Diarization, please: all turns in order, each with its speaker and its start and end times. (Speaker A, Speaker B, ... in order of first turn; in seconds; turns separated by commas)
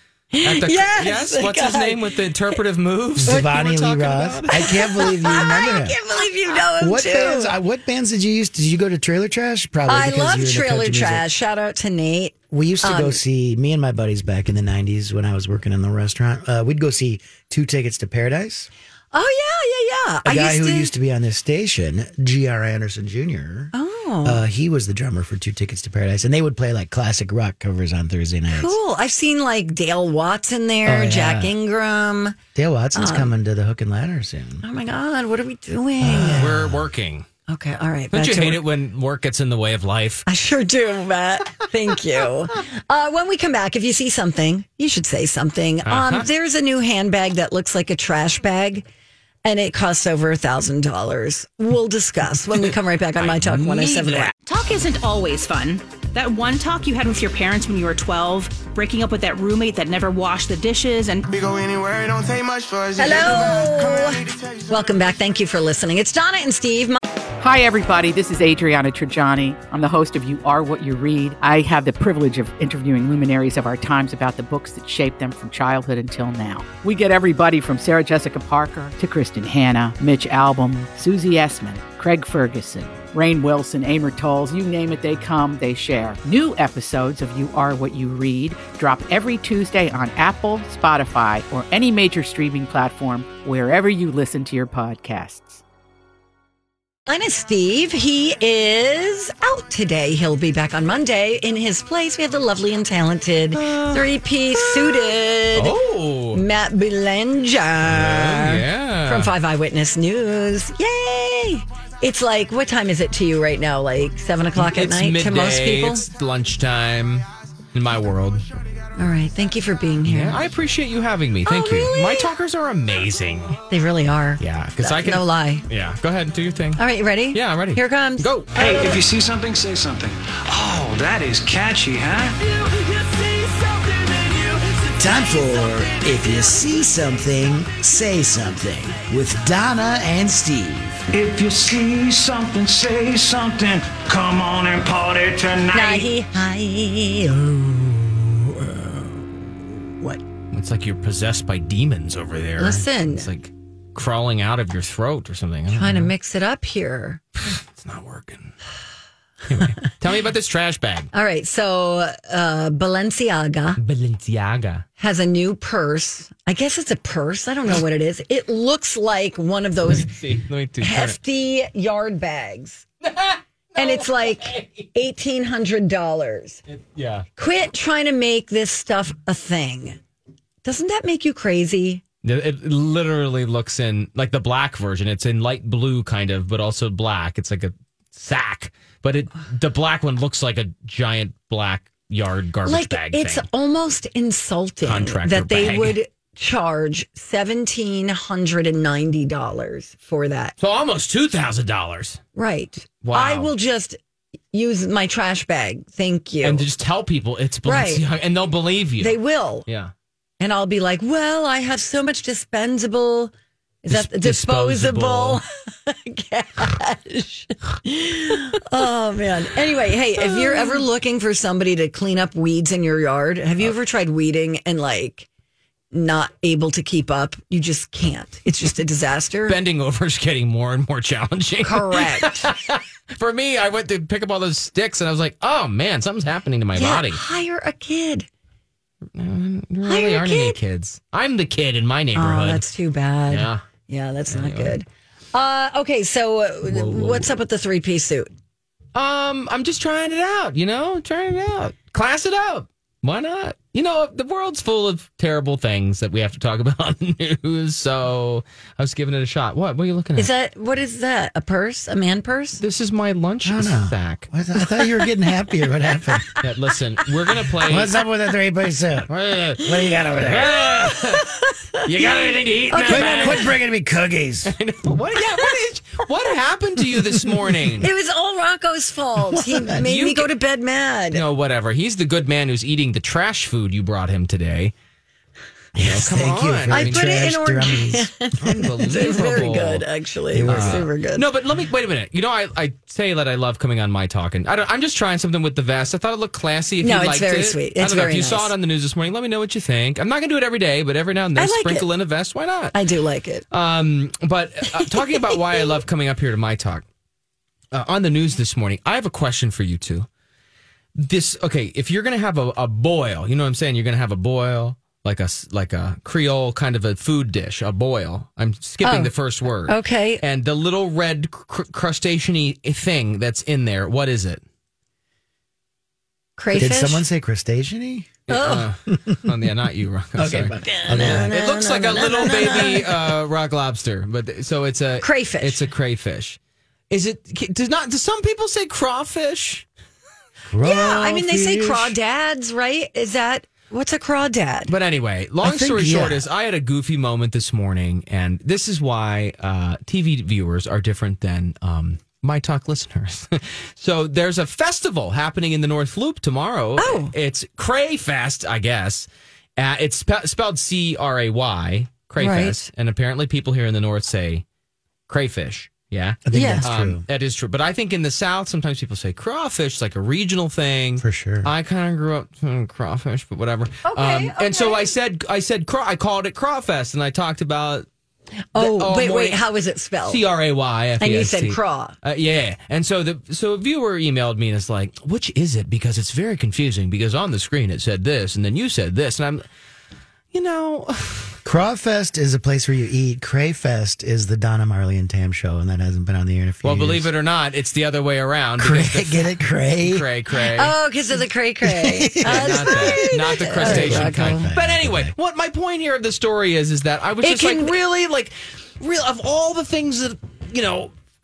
Speaker A: 0.3-2.1, Speaker B: 0.4-4.7, Speaker C: 3.2-6.0, Speaker A: 4.6-7.5, Speaker C: 6.6-11.3, Speaker A: 9.9-13.2, Speaker C: 12.5-18.7, Speaker A: 19.1-20.9, Speaker C: 20.2-23.7, Speaker A: 23.7-24.4, Speaker C: 24.2-28.8, Speaker A: 28.5-32.4, Speaker C: 30.9-31.5, Speaker C: 32.5-34.6, Speaker A: 33.0-33.3, Speaker A: 34.6-36.5, Speaker C: 36.0-36.9, Speaker B: 36.4-37.3, Speaker A: 37.5-38.6, Speaker B: 38.1-40.2, Speaker A: 40.3-48.9, Speaker B: 45.9-46.3, Speaker A: 49.5-54.3, Speaker B: 53.2-54.3, Speaker D: 54.4-61.3, Speaker E: 61.3-64.8, Speaker A: 63.0-67.0, Speaker F: 67.4-95.6, Speaker A: 97.1-105.8, Speaker B: 103.5-106.4, Speaker A: 106.3-116.0, Speaker B: 107.8-109.3, Speaker B: 114.6-118.5, Speaker A: 119.0-120.4, Speaker B: 120.1-123.6, Speaker A: 121.5-122.3, Speaker A: 123.7-125.7, Speaker B: 124.4-128.6, Speaker A: 126.8-129.0, Speaker G: 128.5-136.8, Speaker C: 134.9-141.0, Speaker G: 141.1-146.1, Speaker A: 145.7-147.9, Speaker B: 150.5-156.1, Speaker A: 152.6-153.3, Speaker A: 155.7-157.2, Speaker B: 157.4-158.5, Speaker B: 159.5-161.1, Speaker A: 161.1-163.8, Speaker B: 163.8-164.9, Speaker A: 165.0-170.1, Speaker B: 169.9-171.2, Speaker A: 170.8-172.8, Speaker B: 173.0-174.9, Speaker A: 173.8-176.6, Speaker B: 176.7-177.3, Speaker A: 177.4-180.0, Speaker A: 180.6-182.0, Speaker B: 182.2-193.4, Speaker A: 192.7-200.5, Speaker B: 194.8-196.0, Speaker B: 200.6-202.2, Speaker A: 202.4-204.0, Speaker B: 203.0-203.5, Speaker A: 204.5-206.7, Speaker B: 206.4-209.9, Speaker A: 207.7-208.0, Speaker A: 209.0-209.7, Speaker A: 210.4-213.3, Speaker A: 213.8-225.3, Speaker B: 213.9-215.4, Speaker B: 220.2-220.9, Speaker A: 225.9-229.6, Speaker B: 229.5-237.2, Speaker A: 231.6-232.6, Speaker A: 236.7-238.3, Speaker B: 239.2-242.6, Speaker A: 239.9-240.6, Speaker A: 242.1-248.3, Speaker B: 243.3-243.6, Speaker B: 244.3-244.8, Speaker B: 246.7-247.3, Speaker B: 248.9-260.3, Speaker A: 260.2-262.6, Speaker B: 262.6-264.3, Speaker C: 263.4-266.4, Speaker B: 266.4-267.9, Speaker C: 267.7-270.9, Speaker B: 269.1-271.2, Speaker A: 270.9-271.9, Speaker B: 271.8-273.5, Speaker A: 272.7-273.5, Speaker C: 272.9-274.6, Speaker B: 274.4-277.9, Speaker A: 275.2-275.5, Speaker A: 277.8-281.2, Speaker C: 279.2-279.8, Speaker B: 279.8-280.3, Speaker B: 281.1-284.7, Speaker C: 285.8-288.7, Speaker B: 285.8-287.2, Speaker A: 286.7-291.3, Speaker B: 288.4-289.9, Speaker C: 290.3-290.9, Speaker B: 290.5-302.8, Speaker A: 296.8-298.5, Speaker A: 301.4-301.9, Speaker A: 302.7-303.4, Speaker B: 303.5-306.9, Speaker A: 304.8-305.6, Speaker B: 307.7-310.1, Speaker B: 311.0-324.4, Speaker A: 318.8-319.1, Speaker A: 319.7-320.2, Speaker A: 326.4-327.1, Speaker C: 326.6-328.2, Speaker B: 328.3-336.4, Speaker A: 328.3-328.7, Speaker C: 328.9-329.3, Speaker C: 330.2-331.4, Speaker A: 330.6-332.9, Speaker A: 335.0-335.6, Speaker B: 336.9-339.6, Speaker C: 340.5-341.9, Speaker A: 340.6-344.7, Speaker B: 344.7-364.4, Speaker C: 345.4-346.3, Speaker A: 356.8-357.1, Speaker A: 362.2-362.7, Speaker B: 365.1-377.9, Speaker C: 366.3-367.0, Speaker A: 366.3-366.7, Speaker C: 371.0-371.5, Speaker A: 373.9-374.9, Speaker A: 378.6-380.2, Speaker B: 378.6-379.4, Speaker B: 380.1-389.4, Speaker A: 381.0-381.9, Speaker B: 390.3-391.4, Speaker C: 391.4-397.1, Speaker B: 396.6-400.8, Speaker C: 398.6-400.1, Speaker A: 400.5-404.5, Speaker C: 401.6-405.1, Speaker B: 402.2-410.9, Speaker A: 407.2-407.8